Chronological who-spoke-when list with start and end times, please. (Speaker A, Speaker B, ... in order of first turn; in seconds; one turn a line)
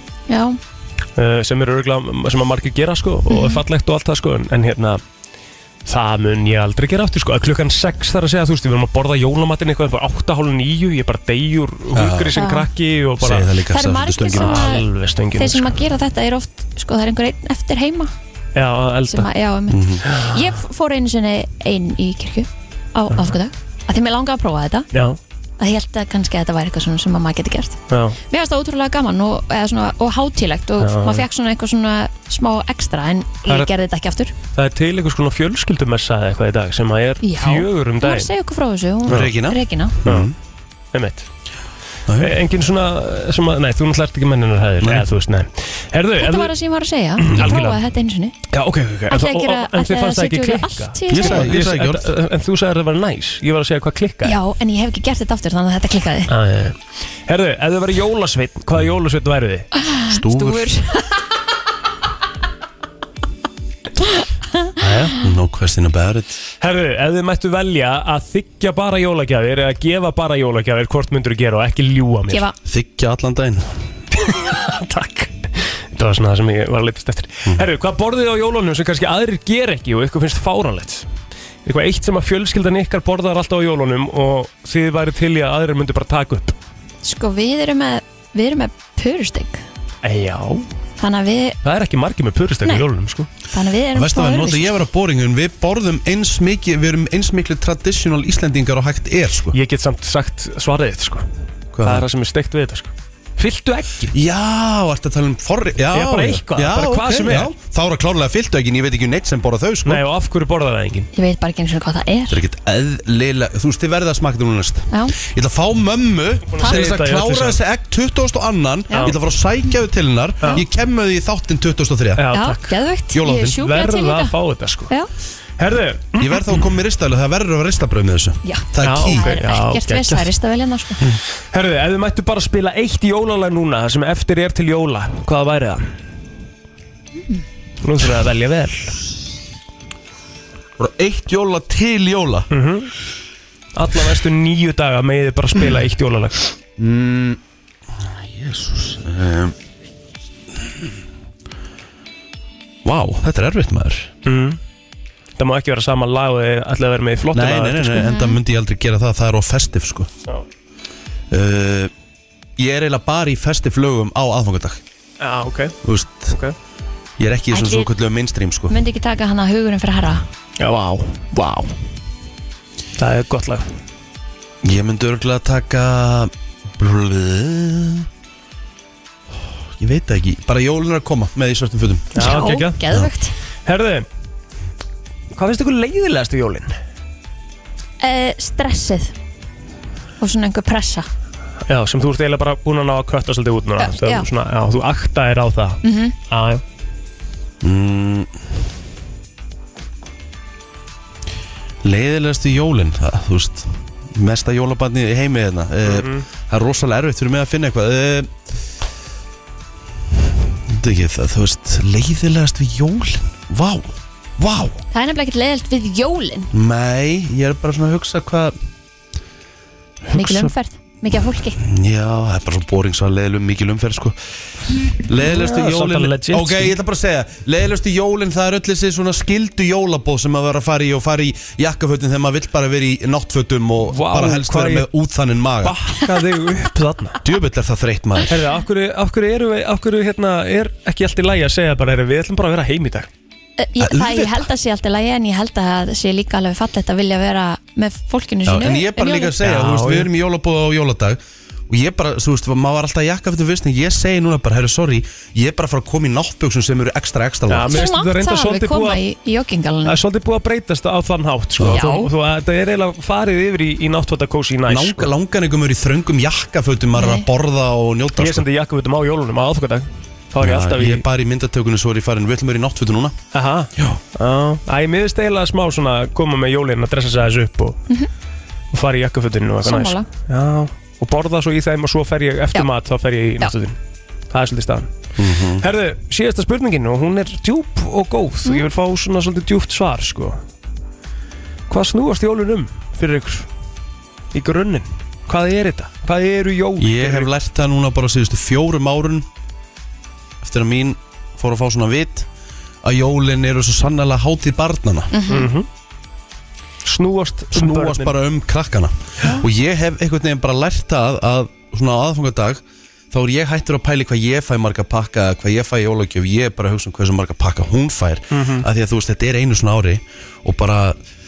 Speaker A: 0.3-0.6
Speaker B: 1.2-5.0
Speaker A: 3.3-3.6
Speaker B: 5.9-13.5
Speaker C: 11.9-12.4
Speaker A: 12.4-12.7
Speaker C: 13.2-14.8
Speaker A: 13.7-18.1
Speaker B: 14.3-15.8
Speaker B: 18.6-19.3
Speaker A: 19.1-24.9
Speaker C: 19.7-20.1
Speaker B: 24.9-25.2
Speaker A: 25.6-34.3
Speaker B: 27.9-28.2
Speaker B: 30.8-31.2
Speaker B: 34.5-38.3
Speaker A: 37.2-40.0
Speaker C: 39.1-40.4
Speaker B: 40.0-40.3
Speaker B: 40.9-41.3
Speaker C: 42.1-42.4
Speaker B: 42.2-46.5
Speaker C: 44.8-45.1
Speaker A: 46.2-48.4
Speaker B: 47.2-47.8
Speaker B: 48.5-54.4
Speaker A: 49.1-51.5
Speaker C: 51.1-52.1
Speaker A: 54.2-56.3
Speaker B: 56.3-59.7
Speaker A: 59.8-61.2
Speaker C: 60.1-60.7
Speaker B: 64.8-65.2
Speaker C: 65.2-66.4
Speaker B: 66.6-72.5
Speaker C: 72.7-73.8
Speaker B: 74.1-81.1
Speaker B: 81.7-86.5
Speaker A: 87.0-89.6
Speaker B: 90.0-90.7
Speaker A: 91.0-91.6
Speaker B: 91.6-93.3
Speaker A: 93.5-94.7
Speaker C: 93.9-99.6
Speaker B: 99.5-101.3
Speaker C: 101.7-102.1
Speaker B: 101.8-104.1
Speaker C: 104.1-110.0
Speaker B: 105.9-107.5
Speaker B: 109.8-111.1
Speaker A: 111.1-112.4
Speaker C: 112.3-122.3
Speaker A: 114.9-115.2
Speaker B: 116.5-117.6
Speaker B: 122.2-122.8
Speaker A: 122.3-124.3
Speaker C: 123.1-123.6
Speaker B: 123.5-124.9
Speaker B: 125.6-126.6
Speaker C: 126.2-129.4
Speaker A: 128.4-131.0
Speaker B: 128.8-130.3
Speaker B: 131.5-135.9
Speaker B: 137.8-139.0
Speaker C: 140.8-142.5
Speaker B: 142.5-142.9
Speaker B: 143.8-146.4
Speaker C: 146.8-147.4
Speaker C: 148.0-149.6
Speaker C: 152.8-154.1
Speaker B: 154.2-154.6
Speaker B: 155.4-158.1
Speaker C: 157.3-160.1
Speaker A: 158.0-158.4
Speaker C: 161.3-161.9
Speaker C: 162.6-164.8
Speaker B: 165.2-166.6
Speaker C: 165.8-166.4
Speaker C: 167.2-168.8
Speaker A: 167.5-167.9
Speaker A: 168.7-170.2
Speaker B: 170.6-171.7
Speaker B: 173.0-173.7
Speaker C: 174.6-178.1
Speaker C: 179.6-182.2
Speaker B: 182.2-182.8
Speaker A: 182.2-183.3
Speaker B: 183.7-184.1
Speaker B: 185.3-186.7
Speaker A: 188.0-189.1
Speaker A: 190.2-191.1
Speaker B: 191.7-196.6
Speaker A: 193.8-194.3
Speaker A: 195.8-196.2
Speaker C: 197.6-198.4
Speaker C: 201.8-208.3
Speaker B: 205.8-206.2
Speaker C: 210.7-214.8
Speaker A: 214.9-216.5
Speaker C: 216.5-218.6
Speaker C: 220.1-220.5
Speaker A: 220.1-221.6
Speaker C: 221.6-224.2
Speaker C: 225.0-235.9
Speaker B: 225.2-226.8
Speaker B: 233.9-234.9
Speaker B: 235.6-237.2
Speaker C: 237.2-238.4
Speaker B: 238.3-243.1
Speaker A: 243.6-249.3
Speaker C: 243.8-244.5
Speaker C: 248.5-257.8
Speaker B: 249.4-250.1
Speaker B: 257.5-259.0
Speaker A: 257.7-260.0
Speaker B: 259.9-265.1
Speaker C: 261.6-261.9
Speaker A: 261.7-262.1
Speaker C: 264.7-268.5
Speaker A: 266.9-267.3
Speaker B: 268.2-271.0
Speaker C: 270.4-273.2
Speaker B: 273.3-277.8
Speaker B: 278.7-283.8
Speaker A: 279.6-280.1
Speaker B: 284.3-284.9
Speaker C: 285.2-285.7
Speaker B: 285.6-290.4
Speaker B: 291.7-293.5
Speaker B: 294.3-297.3
Speaker C: 296.8-299.3
Speaker C: 300.4-302.3
Speaker C: 302.8-305.1
Speaker A: 305.1-305.5
Speaker B: 305.3-305.7
Speaker B: 306.9-308.2
Speaker C: 307.5-321.0
Speaker B: 318.3-318.7